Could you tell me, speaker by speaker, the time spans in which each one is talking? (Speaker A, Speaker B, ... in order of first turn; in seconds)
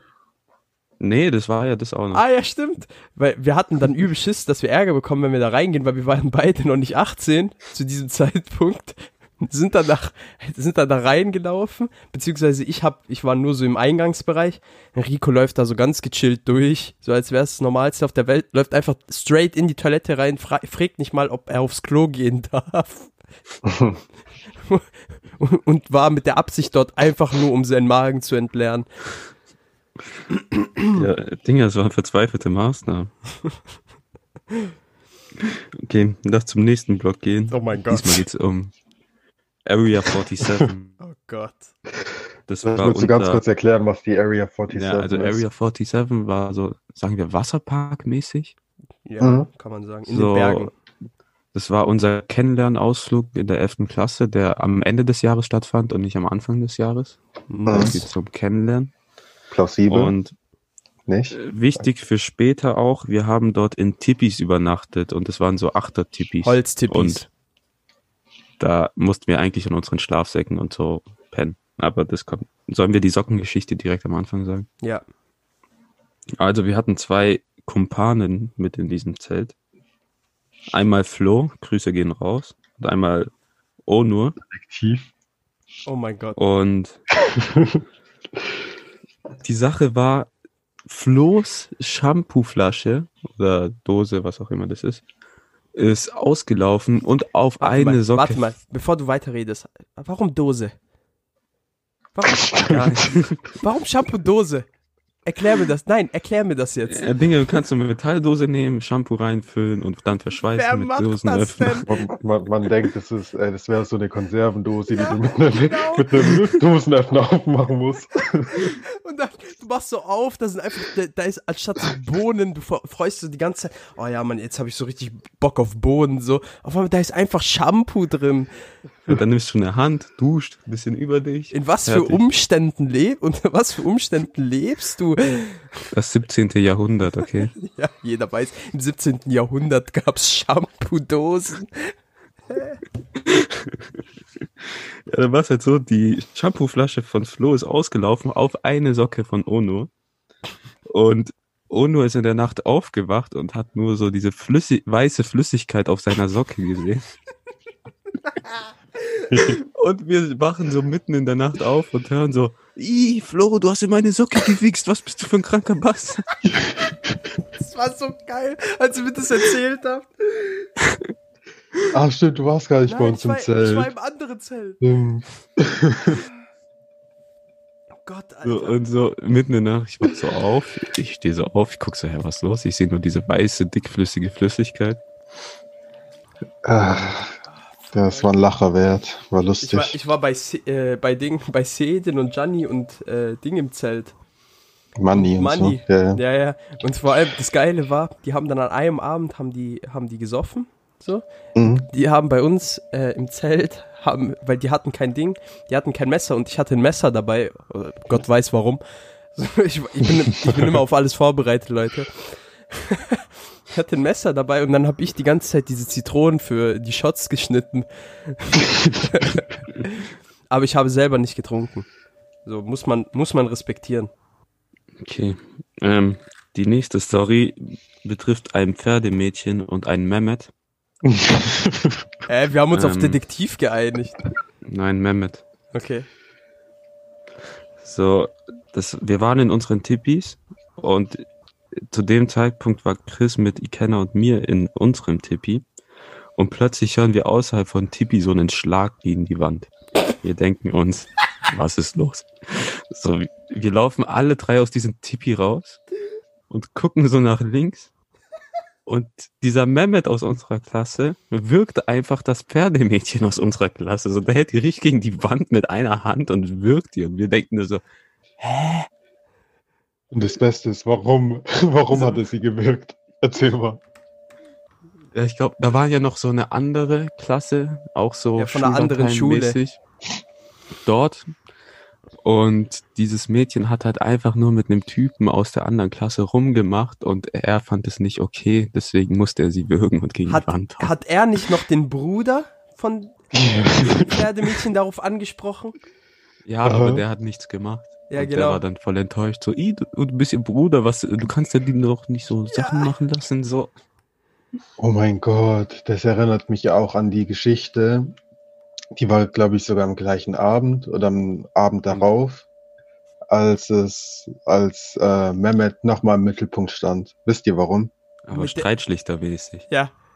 Speaker A: 1.0-2.2, 30.9-33.1, 35.4-38.7, 39.6-41.0, 42.5-43.4, 44.7-48.5, 50.1-50.7, 51.5-58.9, 59.9-60.3, 61.3-67.2, 68.6-74.7, 76.4-79.5, 80.7-83.3, 83.8-84.3, 86.4-87.0, 89.4-90.3, 90.8-95.0, 95.7-98.4, 102.7-103.3, 106.9-112.0, 129.1-132.2, 135.9-137.5, 143.2-143.8, 145.1-149.9, 150.9-157.1, 159.4-166.4, 170.8-171.1, 178.4-185.0, 225.0-230.5, 232.7-233.2, 234.6-235.4, 237.8-241.2, 241.8-245.7, 246.3-249.7, 250.2-255.8, 256.5-257.9, 258.9-267.8, 268.4-268.9, 275.1-279.8, 280.8-281.3, 282.2-290.9, 296.4-303.7, 318.3-319.6
Speaker B: 2.1-23.1, 25.4-28.9, 30.5-31.0, 37.5-38.2, 41.0-41.7, 49.0-50.7, 57.5-58.1, 66.4-67.3, 85.8-86.4, 97.6-100.7, 102.1-104.7, 105.2-107.1, 110.5-111.9, 114.9-116.1, 118.9-128.5, 131.5-135.7, 137.6-141.9, 142.5-142.8, 158.3-159.3, 167.6-170.6, 172.8-174.8, 178.1-178.8, 187.8-188.3, 189.6-194.1, 195.1-201.2, 201.8-208.8, 209.3-221.9, 222.4-224.1, 232.3-234.2, 235.7-236.1, 278.4-279.6, 290.3-293.1, 293.8-295.8, 298.1-298.6, 302.5-302.9, 318.3-318.7
Speaker C: 23.6-24.0, 42.6-45.4, 49.2-49.5, 57.7-58.0, 59.5-60.1, 61.1-61.8, 84.5-85.1, 87.3-87.8, 102.5-102.9, 111.9-118.8, 171.9-173.9, 174.8-176.2, 186.6-187.4, 187.9-189.9, 195.0-196.2, 201.5-201.9, 231.0-232.0, 270.1-273.8, 293.5-294.0, 296.6-297.0, 304.8-308.1, 308.9-312.5, 313.3-317.9